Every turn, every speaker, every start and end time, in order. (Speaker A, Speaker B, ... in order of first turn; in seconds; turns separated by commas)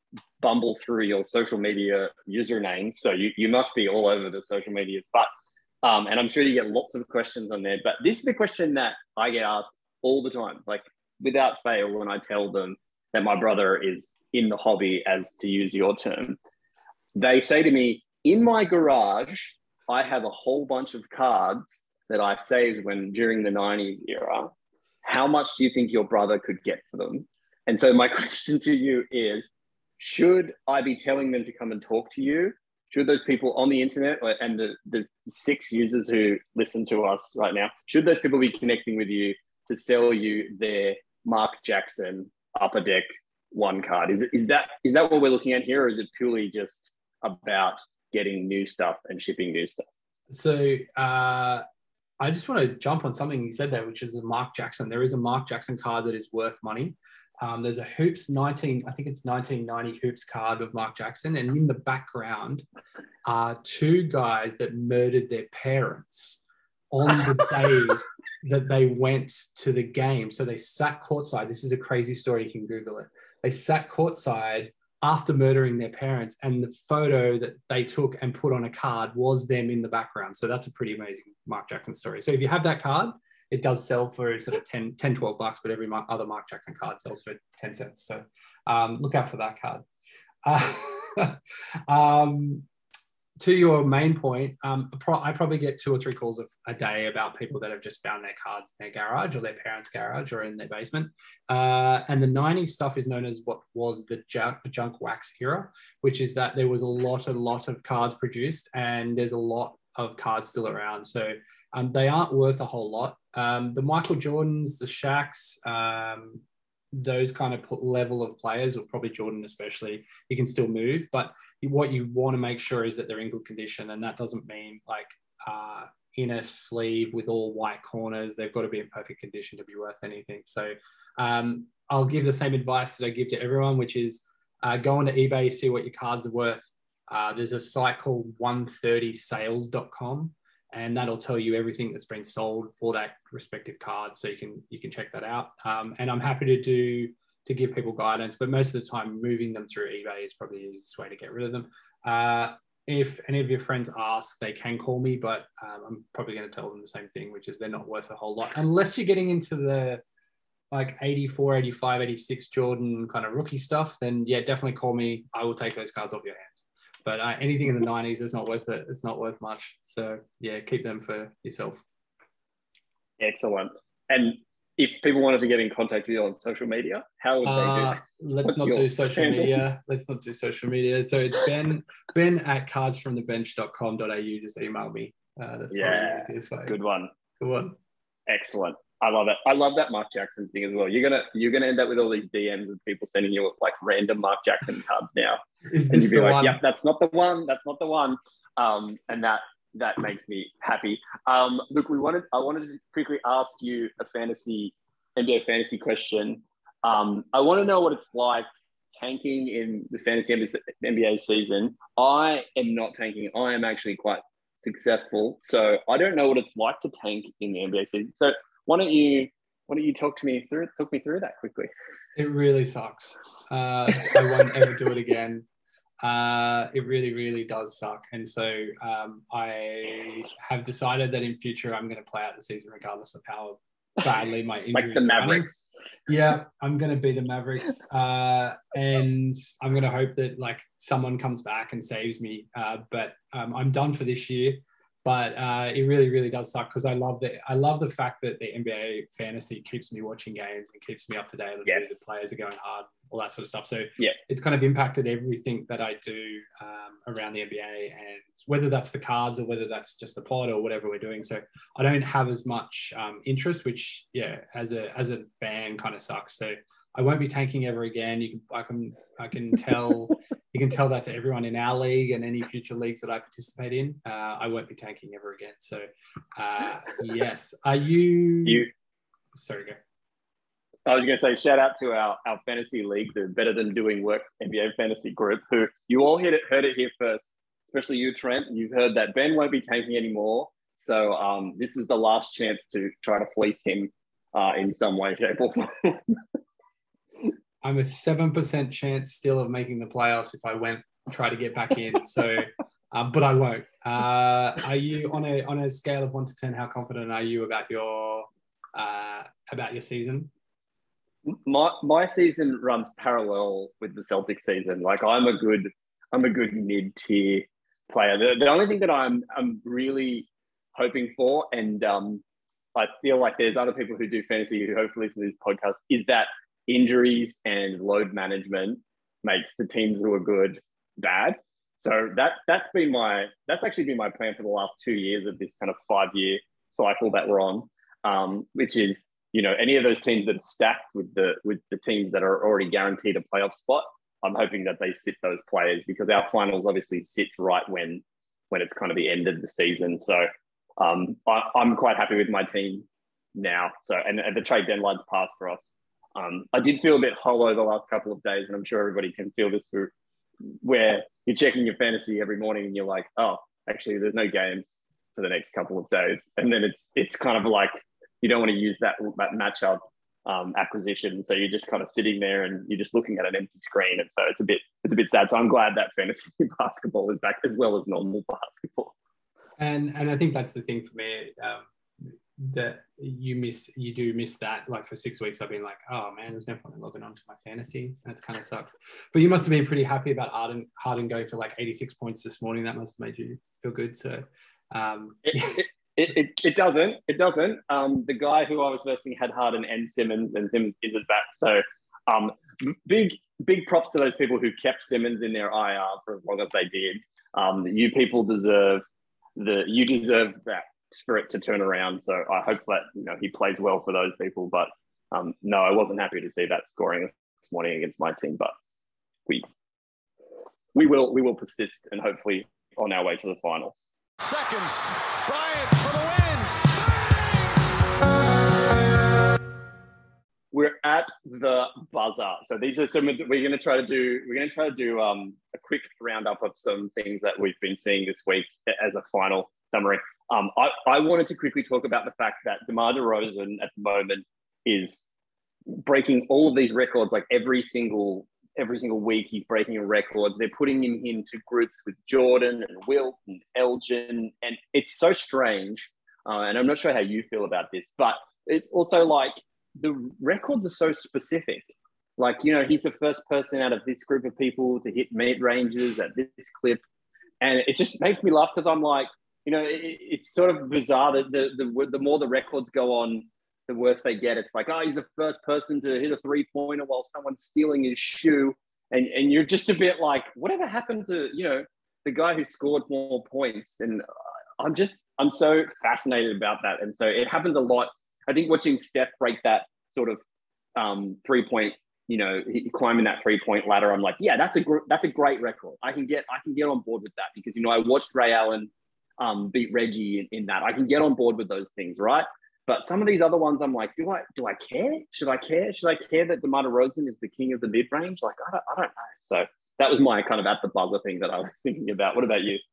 Speaker A: 0.4-5.3, Speaker A: 5.8-16.4, Speaker A: 17.1-24.5, Speaker A: 25.0-49.9, Speaker B: 50.3-51.6, Speaker B: 52.2-62.6, Speaker B: 63.2-66.4, Speaker B: 66.9-89.8, Speaker B: 90.4-92.7, Speaker B: 93.4-160.0, Speaker B: 160.7-171.8, Speaker A: 173.2-179.7, Speaker B: 177.4-186.8, Speaker A: 185.7-187.1, Speaker B: 187.4-187.8, Speaker A: 188.3-221.7, Speaker B: 195.7-196.6, Speaker B: 222.2-225.4, Speaker B: 226.0-235.5, Speaker A: 234.7-235.6, Speaker B: 236.1-278.7, Speaker A: 251.7-251.9, Speaker B: 279.3-279.8, Speaker A: 280.9-296.2, Speaker B: 297.6-310.3, Speaker A: 311.2-322.2, Speaker A: 322.7-359.9, Speaker A: 360.6-378.9, Speaker B: 379.6-381.6, Speaker B: 382.4-395.6, Speaker A: 395.3-408.8, Speaker A: 409.4-418.5, Speaker A: 420.7-423.7, Speaker C: 424.2-427.5, Speaker A: 430.5-445.0, Speaker A: 445.7-466.8, Speaker A: 467.4-484.0, Speaker A: 484.6-490.2, Speaker A: 490.8-512.6